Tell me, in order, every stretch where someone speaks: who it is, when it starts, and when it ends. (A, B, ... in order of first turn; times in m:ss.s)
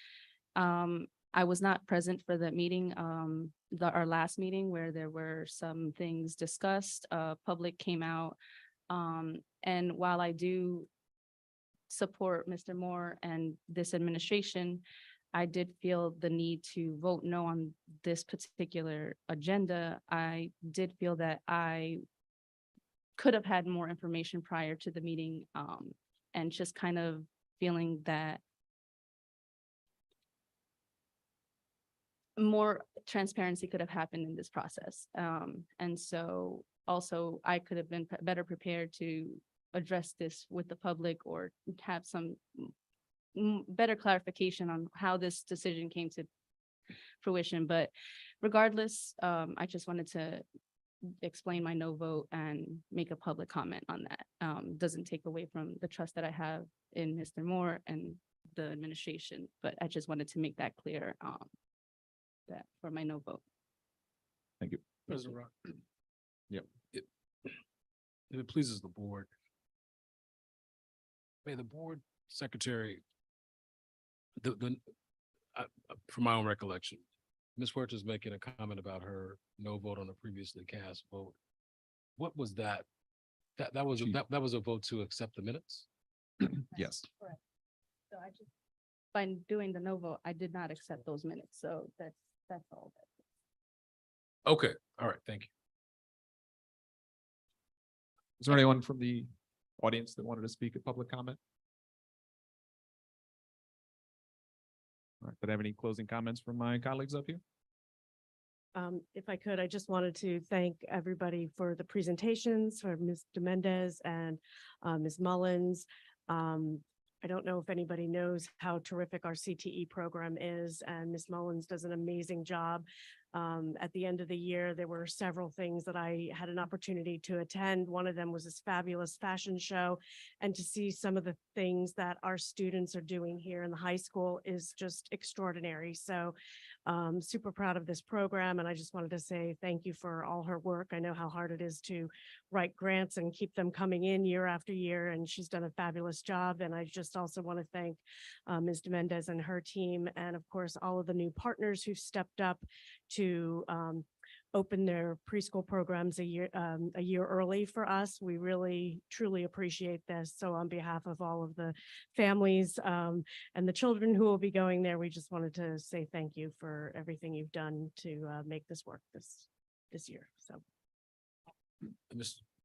0:00.6-0:08.4 A
0:08.9-0:10.9 A
0:11.9-0:22.0 A
0:23.2-0:28.4 A
0:32.4-0:42.7 A
0:43.4-0:46.3 A
0:47.2-0:50.4 A
0:51.2-1:01.5 A
1:02.5-1:03.4 A
1:04.6-1:04.9 B
1:05.1-1:05.5 C
1:08.3-1:09.3 C
1:11.4-1:13.0 C
1:14.4-1:14.8 C
1:15.6-1:17.0 C
1:17.6-1:21.4 C
1:22.2-1:22.8 C
1:23.6-1:25.8 C
1:26.5-1:27.0 B
1:26.7-1:27.4 A
1:28.1-1:28.5 A
1:29.1-1:33.1 A
1:34.5-1:35.5 C
1:38.4-1:41.4 B
1:45.2-1:47.4 B
1:48.8-2:16.4 D
2:16.9-2:50.6 D
2:52.1-2:52.4 C